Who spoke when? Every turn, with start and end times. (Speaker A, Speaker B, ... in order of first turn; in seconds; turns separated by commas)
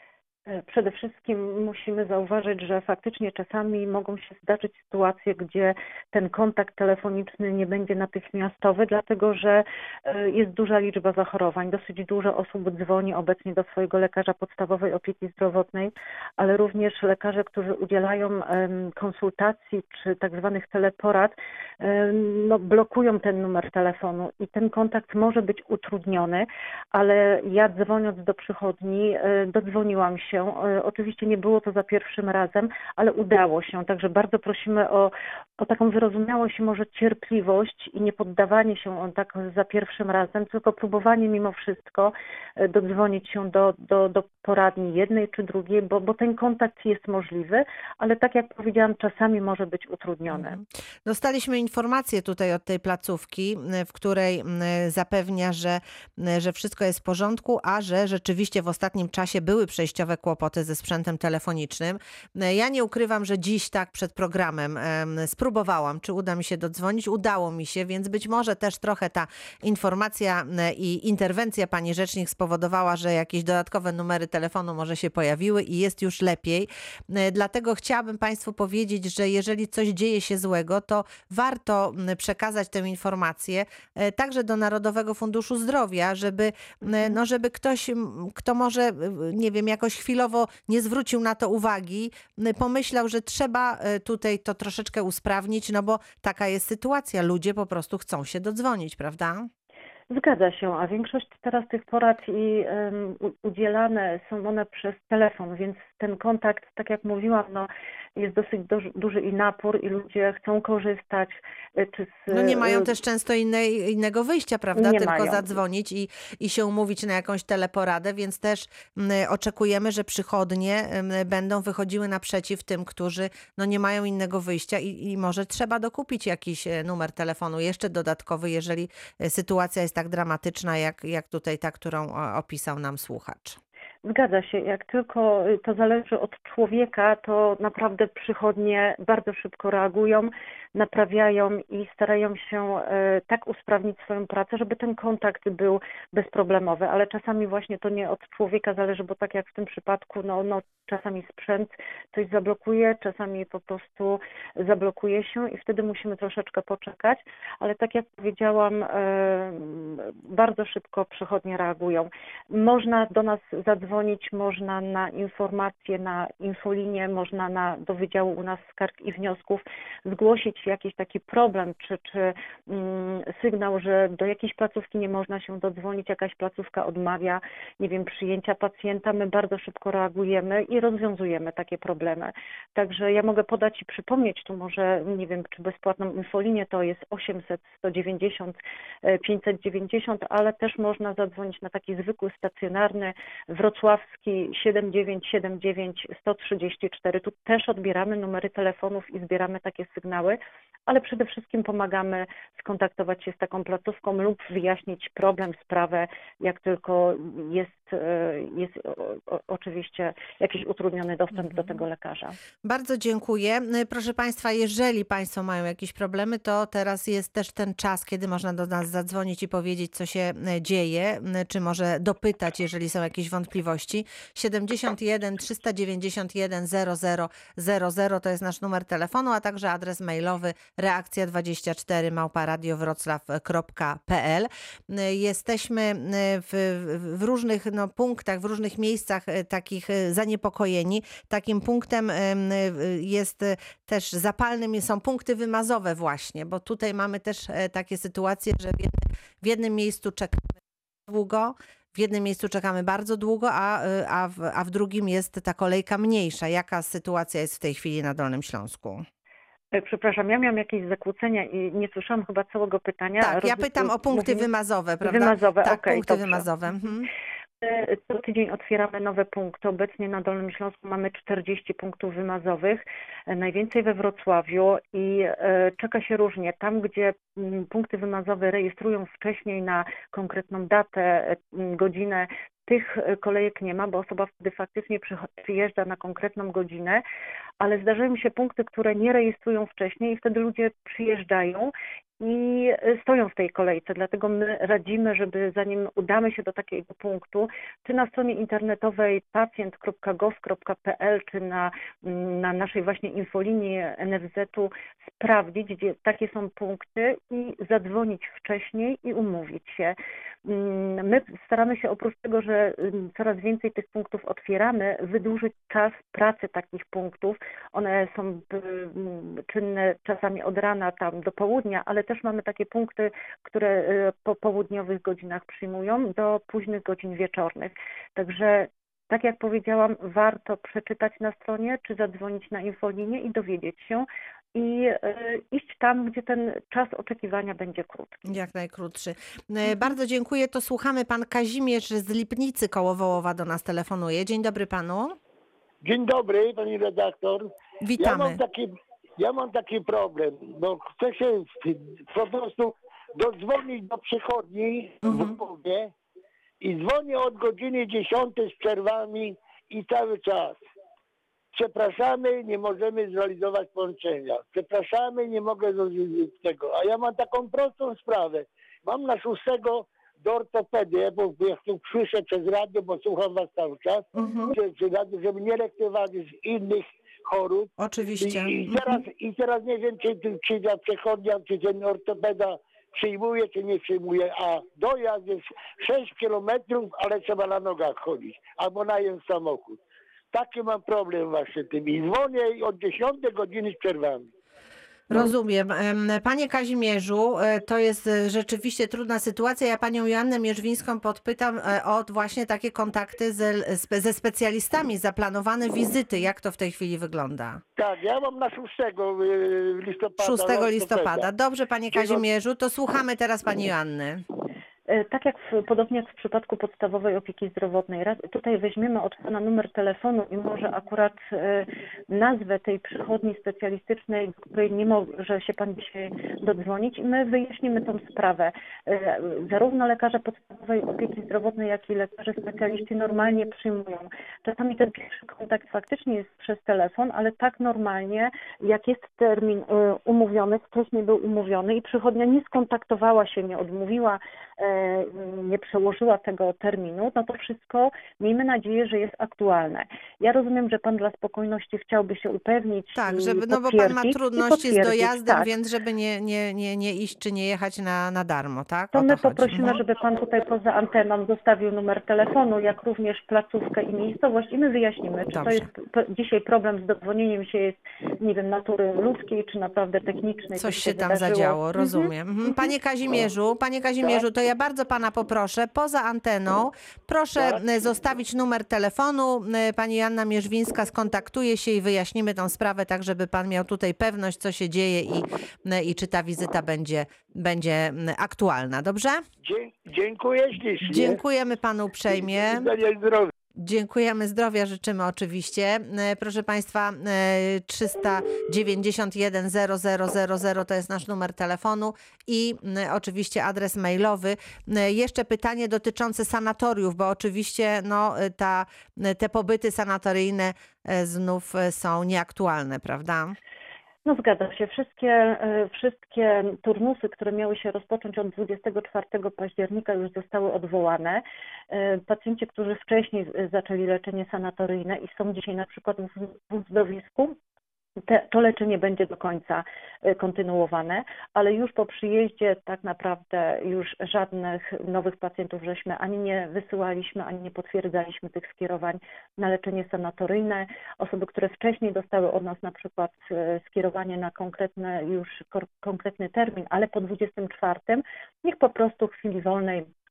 Speaker A: 0.5-50.6, Speaker B: 50.3-99.5, Speaker A: 100.1-112.9, Speaker B: 112.3-133.6, Speaker A: 114.8-115.6, Speaker A: 134.1-212.4, Speaker B: 212.7-259.1, Speaker A: 259.7-264.5, Speaker B: 263.2-267.1, Speaker A: 265.0-266.5, Speaker A: 267.6-287.0, Speaker A: 287.6-338.3, Speaker B: 338.3-345.2, Speaker C: 345.8-355.9, Speaker B: 347.8-348.4, Speaker B: 355.1-355.3, Speaker C: 356.6-360.6, Speaker C: 361.5-389.8, Speaker B: 374.1-374.6, Speaker B: 377.8-379.0, Speaker C: 390.3-394.3, Speaker B: 395.1-407.6, Speaker C: 407.8-411.3, Speaker B: 410.2-414.2, Speaker C: 411.9-412.2, Speaker A: 414.9-455.5, Speaker B: 453.0-459.8, Speaker A: 458.9-472.1, Speaker B: 465.4-465.7, Speaker B: 470.6-489.2, Speaker C: 489.4-491.2, Speaker B: 490.8-492.7, Speaker C: 492.1-493.3, Speaker B: 493.6-513.4, Speaker A: 514.0-527.4, Speaker A: 528.0-549.9